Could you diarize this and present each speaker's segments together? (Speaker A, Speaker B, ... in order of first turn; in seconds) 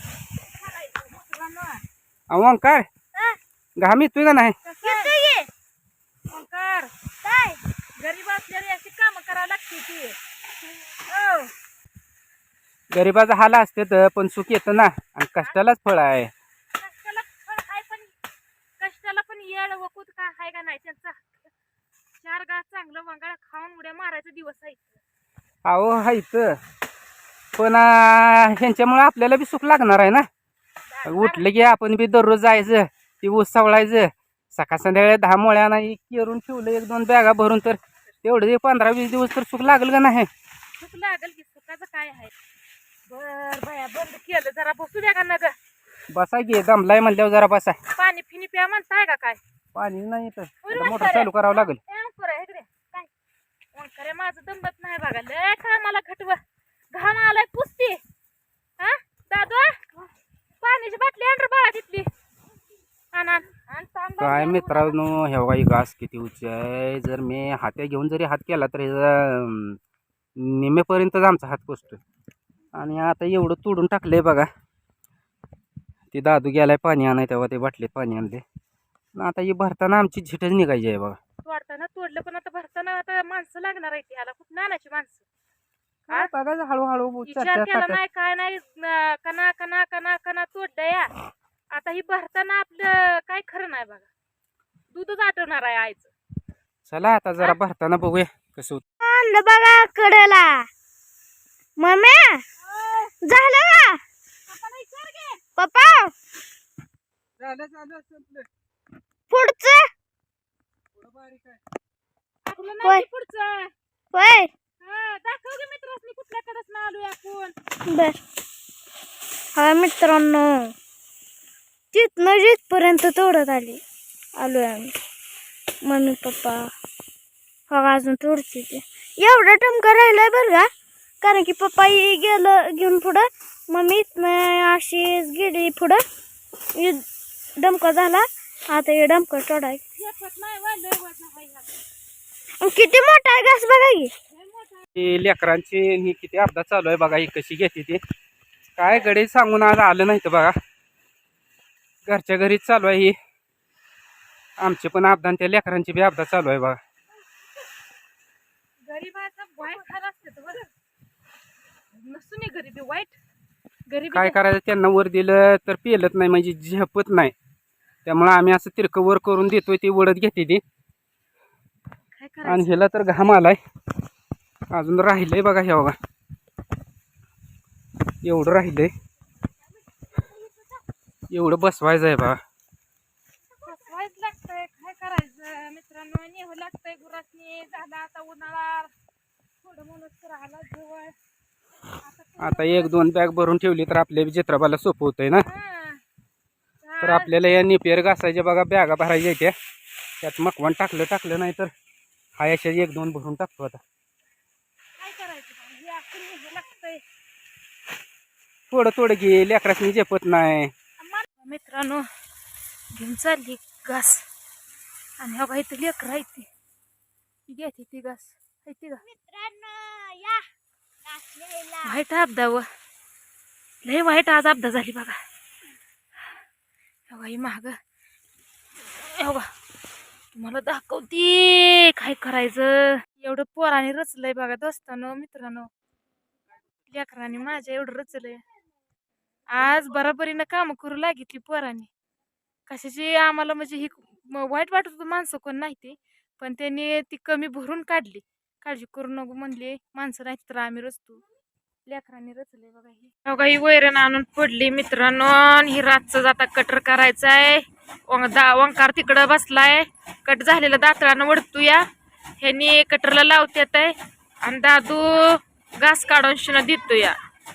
Speaker A: 0.6-1.8, 4.6-5.1, 6.3-6.9, 8.0-10.2, 11.1-11.5, 16.8-18.1, 18.8-21.3, 22.2-25.0, 30.9-31.4, 40.8-42.3, 43.1-45.5, 48.0-49.4, 50.6-53.1, 53.7-56.4, 56.9-58.0, 58.8-59.9, 60.6-62.1, 63.1-65.0, 81.4-85.2, 87.3-91.1, 91.7-94.1, 94.9-96.1, 102.6-103.2, 104.5-105.4, 112.5-113.7, 114.8-117.5, 140.0-141.7, 144.3-144.9, 158.8-160.7, 161.9-163.2, 163.9-164.4, 172.1-172.8, 180.3-180.6, 183.6-188.9, 189.6-191.2, 192.0-192.9, 195.4-196.0, 196.8-197.3, 205.0-207.0, 211.1-212.1, 212.9-214.2, 215.2-216.5, 217.5-219.0, 221.8-222.7, 223.8-225.2, 227.1-227.8, 229.0-229.5, 230.3-235.7, 236.9-238.4, 239.5-241.9, 242.7-251.2, 251.9-261.9, 262.4-267.2
Speaker B: 2.3-2.9, 3.8-4.6, 12.9-16.3, 25.6-26.6, 27.6-30.3, 31.1-40.3, 46.1-47.8, 49.8-51.8, 64.2-69.8, 70.4-72.0, 72.7-74.5, 76.1-78.4, 79.2-81.2, 86.1-88.0, 96.9-98.8, 107.4-108.5, 111.0-111.6, 145.0-148.0, 148.8-150.6, 152.1-153.2, 154.6-156.8, 164.1-167.3, 168.1-170.6, 172.4-173.6, 174.7-176.0, 178.2-178.9, 181.3-182.4, 192.4-195.5, 197.0-199.5, 200.2-201.7, 202.4-203.8, 208.7-210.7
Speaker C: 4.8-5.5, 7.2-7.6, 99.0-100.7, 101.8-102.4, 103.2-104.0, 105.6-106.1, 109.3-109.9, 114.1-114.5, 117.9-118.2, 119.5-120.8, 121.9-123.8, 124.4-125.0, 125.8-126.7, 127.7-130.7, 131.2-136.0, 136.8-137.0, 137.6-139.8, 142.6-144.1, 219.1-220.5, 221.1-221.9